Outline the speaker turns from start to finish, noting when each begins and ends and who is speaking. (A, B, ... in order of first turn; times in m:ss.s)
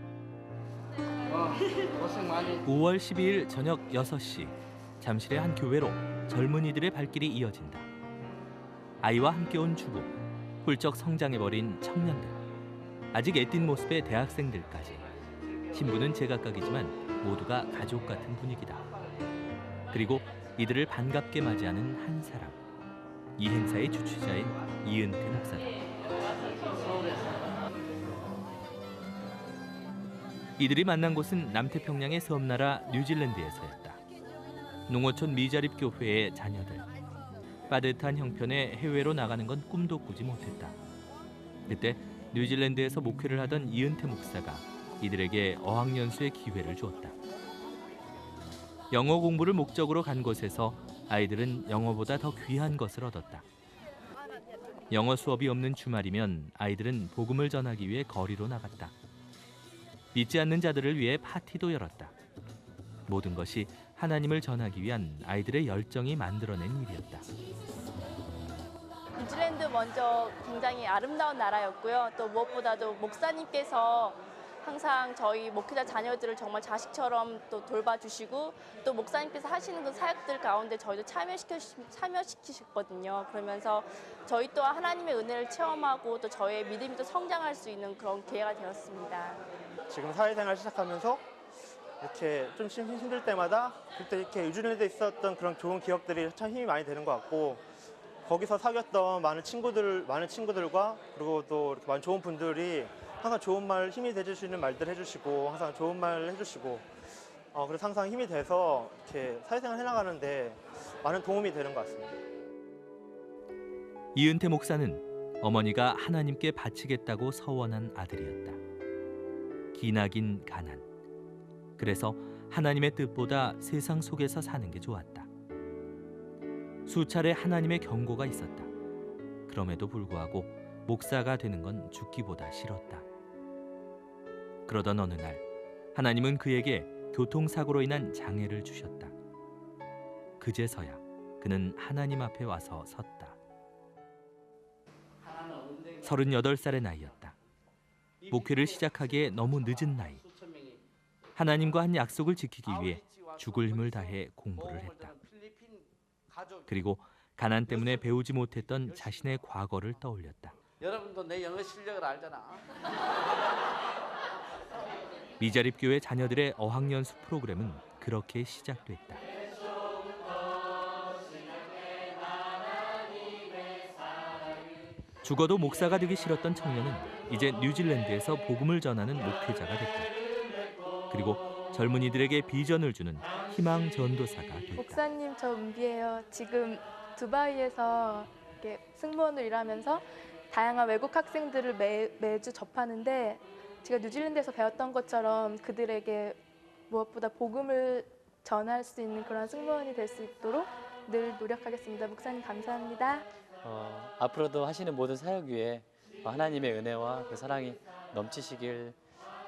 0:02.6-0:07.9 A
0:09.0-0:12.4 A
0:13.1-0:15.0 A
0:15.7-0:18.8 A
0:19.9-0:22.6 A
0:23.4-0:25.7 A
0:30.6-0:34.0 A
0:34.9-0:36.8 A
0:37.7-0:40.7 A
0:41.7-0:47.2 A
0:48.9-0:53.4 A
0:54.9-0:58.9 A
1:00.1-1:02.1 A
1:03.1-1:07.2 A
1:09.2-1:29.4 B
1:29.9-1:31.2 C
1:32.0-1:37.6 C
1:38.2-1:46.9 C
1:47.5-1:52.2 C
1:54.1-1:58.6 A
1:59.7-2:00.8 A
2:01.8-2:05.3 A
2:06.8-2:08.7 A
2:09.5-2:13.0 A
2:14.7-2:15.4 A
2:15.9-2:19.1 A
2:20.4-2:23.4 A
2:26.0-2:27.4 A
2:28.3-2:30.2 A
2:31.4-2:35.2 A
2:35.3-2:35.8 D
2:36.7-2:40.6 A
2:40.8-2:42.6 D
2:45.4-2:49.2 A
2:55.2-3:00.1 A
3:01.1-3:05.0 A
3:04.8-3:23.2 E
3:23.6-3:29.0 F